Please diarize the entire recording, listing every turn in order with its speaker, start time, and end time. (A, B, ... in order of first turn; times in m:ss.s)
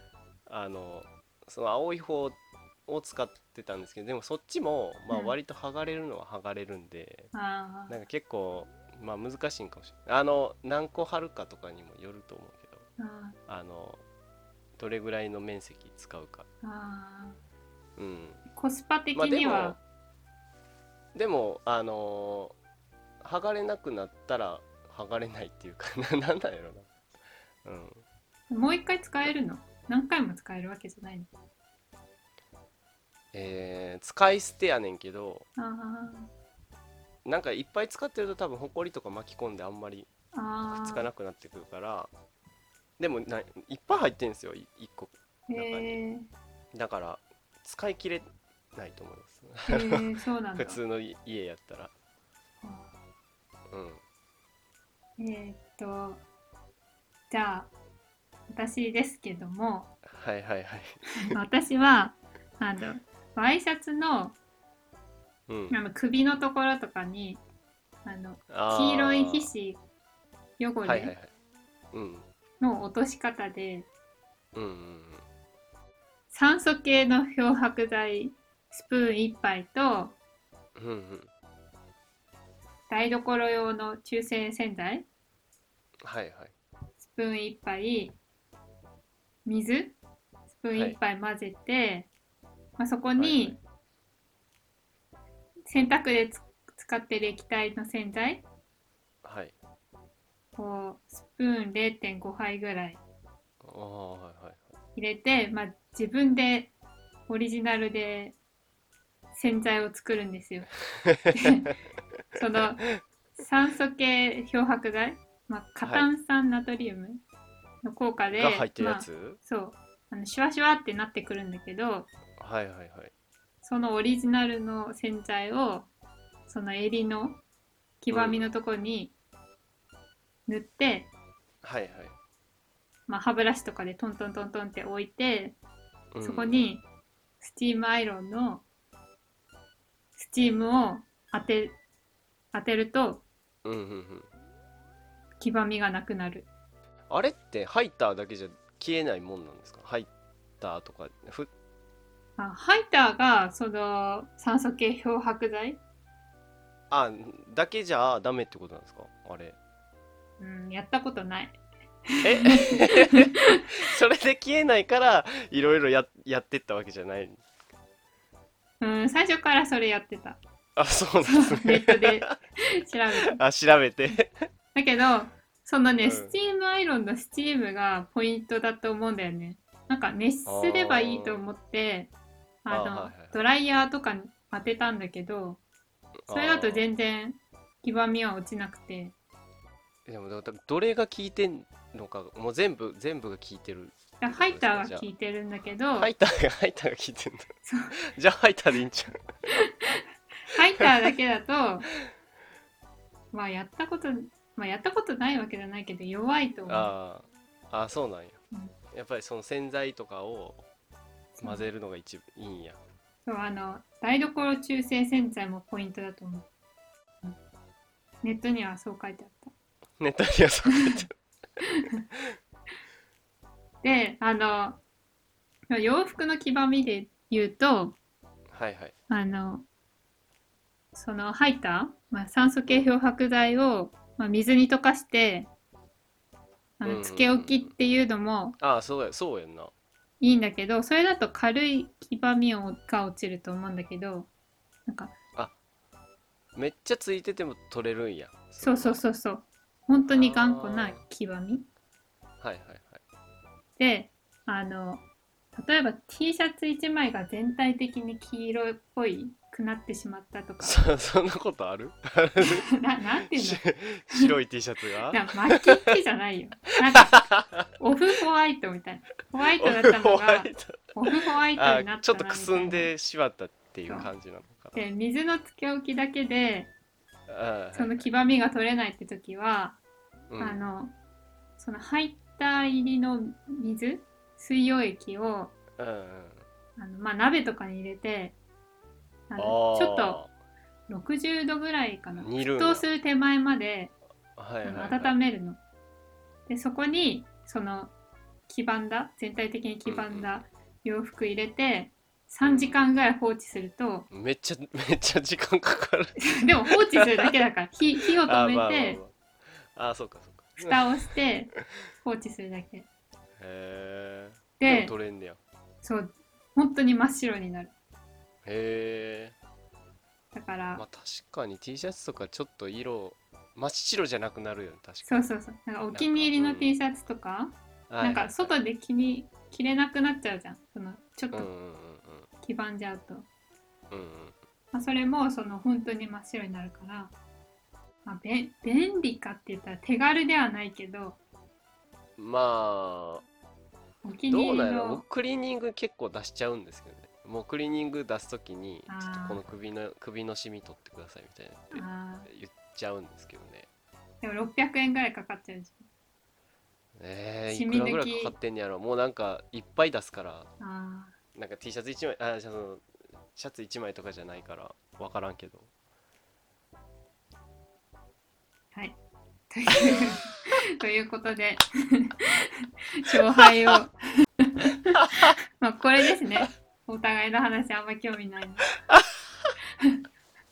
0:00.5-0:07.3 A
0:05.1-0:05.4 B
0:07.3-0:08.0 B
0:07.9-0:12.9 A
0:13.0-0:13.4 B
0:13.5-0:14.0 A
0:14.8-0:16.5 A
0:16.6-0:17.4 B
0:18.0-0:18.4 A
0:18.5-0:19.8 B
0:19.1-0:19.8 A
0:21.1-0:22.6 A
0:23.2-0:26.9 A
0:27.6-0:28.0 A
0:28.5-0:31.3 B
0:33.3-0:35.5 A
0:35.6-0:36.3 B
0:37.2-0:40.1 A
0:40.3-0:41.1 B
0:40.8-0:42.1 A
0:43.0-0:46.0 A
0:45.5-0:46.3 B
0:46.7-0:51.9 A
0:49.6-0:50.8 B
0:52.6-0:53.0 B
0:53.7-0:54.0 A
0:55.2-0:56.2 B
0:57.3-0:57.7 B
0:58.5-0:59.9 B
1:00.0-1:01.3 A
1:01.3-1:04.4 B
1:05.5-1:05.8 A
1:05.7-1:07.4 B
1:08.0-1:09.8 B
1:08.5-1:09.5 A
1:10.6-1:11.1 B
1:10.8-1:11.3 A
1:11.9-1:12.3 A
1:12.6-1:13.9 B
1:14.5-1:15.2 A
1:16.3-1:20.2 B
1:20.8-1:21.3 A
1:22.9-1:25.1 B
1:26.0-1:26.5 A
1:27.0-1:28.2 B
1:29.4-1:30.0 B
1:30.5-1:32.1 B
1:32.8-1:33.6 B
1:33.2-1:33.6 A
1:35.7-1:38.4 B
1:39.2-1:39.5 A
1:40.6-1:43.0 B
1:43.6-1:44.7 A
1:45.0-1:46.7 B
1:47.3-1:48.4 B
1:49.3-1:50.7 B
1:51.0-1:51.6 A
1:51.3-1:51.7 B
1:52.3-1:57.2 B
1:57.8-2:02.1 B
1:58.3-1:59.4 A
2:02.4-2:03.1 A
2:03.6-2:05.9 B
2:06.5-2:07.4 B
2:08.0-2:09.1 B
2:08.1-2:08.4 A
2:10.5-2:11.1 B
2:11.6-2:12.2 A
2:13.1-2:15.6 B
2:16.1-2:16.6 A
2:16.2-2:16.8 B
2:17.4-2:18.6 B
2:20.2-2:21.8 B
2:22.5-2:23.2 B
2:23.6-2:24.3 A
2:25.4-2:26.5 B
2:27.1-2:30.1 A
2:30.6-2:31.5 A
2:32.4-2:35.8 B
2:36.9-2:39.6 A
2:40.4-2:41.6 B
2:42.1-2:43.8 B
2:42.2-2:47.4 A
2:48.8-2:50.4 B
2:50.8-2:52.4 A
2:51.2-2:53.4 B
2:53.2-2:54.4 A
2:54.7-3:02.1 B
2:56.0-2:56.4 A
3:00.4-3:01.4 A
3:02.6-3:05.6 B
3:02.7-3:03.4 A
3:06.2-3:06.9 A
3:06.3-3:09.1 B
3:10.0-3:15.0 A
3:14.2-3:16.1 B
3:16.0-3:19.2 A
3:17.6-3:18.0 B
3:19.6-3:21.9 B
3:23.3-3:26.9 B
3:26.7-3:28.4 A
3:28.9-3:30.6 A
3:31.4-3:31.6 B
3:31.4-3:32.8 A
3:33.2-3:36.5 B
3:38.2-3:39.5 B
3:40.0-3:41.1 A
3:40.7-3:41.0 B
3:41.6-3:42.0 B
3:43.8-3:44.8 B
3:45.7-3:48.0 B
3:48.5-3:48.9 A
3:49.1-3:49.6 B
3:50.9-3:55.5 B
3:56.8-3:58.6 B
3:56.8-3:57.7 A
3:58.6-3:59.7 A
4:00.2-4:04.3 B
4:04.9-4:05.2 B
4:06.5-4:09.0 A
4:08.6-4:11.6 B
4:10.1-4:11.0 A
4:12.4-4:13.0 A
4:13.8-4:20.8 B
4:20.6-4:22.7 A
4:22.4-4:24.3 B
4:23.3-4:25.6 A
4:25.1-4:27.2 B
4:26.9-4:27.7 A
4:27.8-4:32.9 B
4:29.6-4:34.8 A
4:34.7-4:36.7 B
4:37.3-4:38.1 A
4:37.7-4:39.8 B
4:40.3-4:40.6 A
4:40.4-4:40.9 B
4:41.6-4:45.6 B
4:45.8-4:46.4 A
4:46.8-4:48.4 B
4:49.3-4:50.2 B
4:49.4-4:50.3 A
4:50.9-4:53.9 B
4:52.2-4:52.8 A
4:54.4-4:55.1 A
4:54.6-4:55.6 B
4:56.5-4:57.9 B
4:58.5-5:04.1 B
4:59.8-5:00.3 A
5:02.4-5:02.8 A
5:04.1-5:07.3 A
5:06.2-5:09.0 B
5:08.1-5:10.8 A
5:10.6-5:11.5 B
5:12.0-5:12.8 B
5:13.4-5:15.4 A
5:14.6-5:14.9 B
5:15.8-5:17.7 B
5:18.4-5:19.4 A
5:20.3-5:20.8 B
5:20.7-5:25.2 A
5:25.1-5:31.5 B
5:25.9-5:26.7 A
5:27.9-5:28.5 A
5:31.3-5:32.3 A
5:32.4-5:33.3 B
5:33.9-5:34.4 A
5:34.7-5:37.1 B
5:38.0-5:41.2 B
5:42.2-5:43.2 A
5:44.0-5:45.0 B
5:44.3-5:53.7 A
5:48.9-5:49.4 B
5:51.7-5:52.3 B
5:54.2-5:55.8 B
5:57.0-6:00.5 A
5:57.5-5:58.4 B
6:00.6-6:01.2 B
6:01.3-6:05.7 A
6:09.5-6:18.8 B
6:13.1-6:13.8 A
6:18.9-6:19.5 A